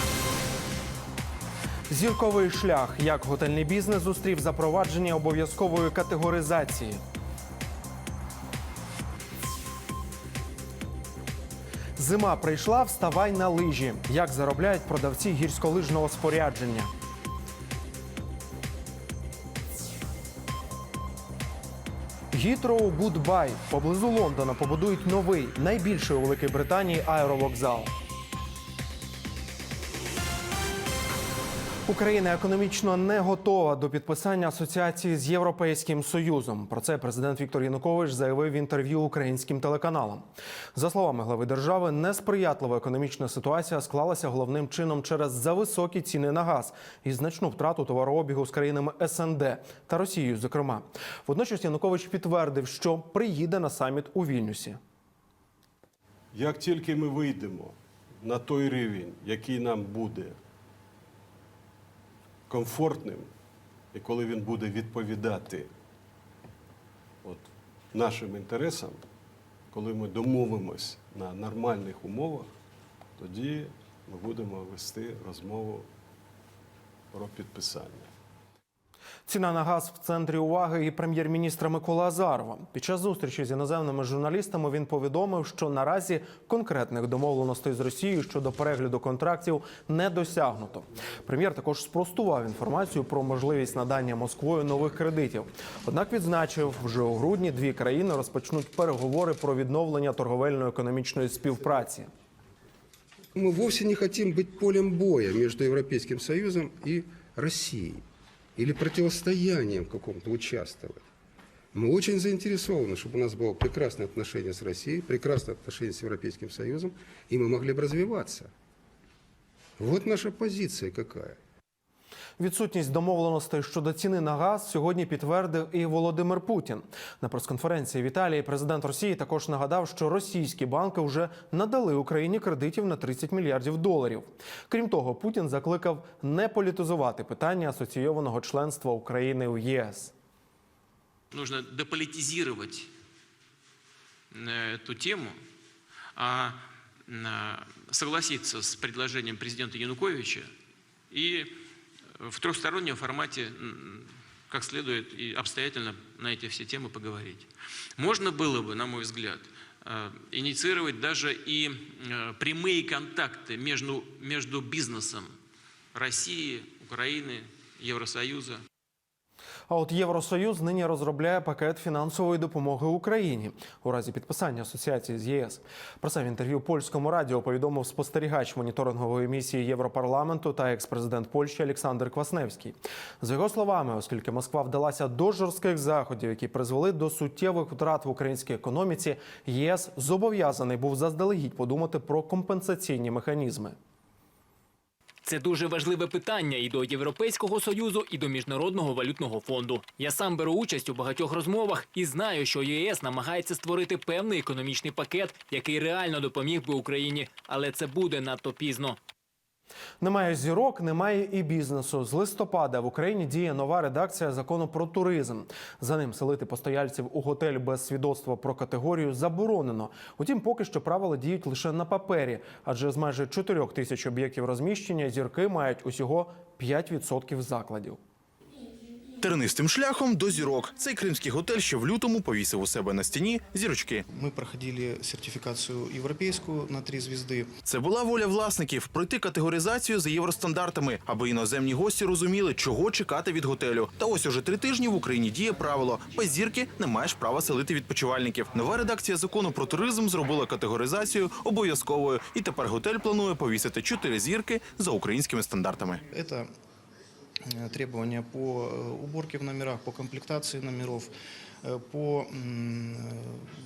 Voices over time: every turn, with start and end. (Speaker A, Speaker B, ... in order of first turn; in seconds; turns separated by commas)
Speaker A: 1.9-7.0, Speaker A: 12.0-16.9, Speaker A: 22.3-27.9, Speaker A: 31.9-54.8, Speaker B: 56.3-60.4, Speaker B: 62.5-63.3, Speaker B: 63.9-65.7, Speaker B: 67.2-69.0, Speaker B: 69.7-72.5, Speaker B: 73.2-75.8, Speaker B: 77.1-78.1, Speaker A: 79.3-102.1, Speaker C: 103.3-108.0, Speaker C: 108.6-111.0, Speaker C: 111.7-118.5, Speaker C: 119.8-121.3, Speaker A: 122.4-140.1, Speaker D: 141.3-142.9, Speaker D: 144.3-145.4, Speaker D: 146.2-150.5, Speaker D: 151.1-151.5, Speaker D: 152.2-165.3, Speaker D: 165.9-168.6, Speaker A: 169.7-193.8, Speaker E: 195.2-209.0, Speaker A: 210.0-228.0, Speaker F: 229.2-234.0, Speaker G: 234.1-237.5, Speaker F: 237.6-256.0, Speaker G: 256.1-256.5, Speaker G: 257.5-263.3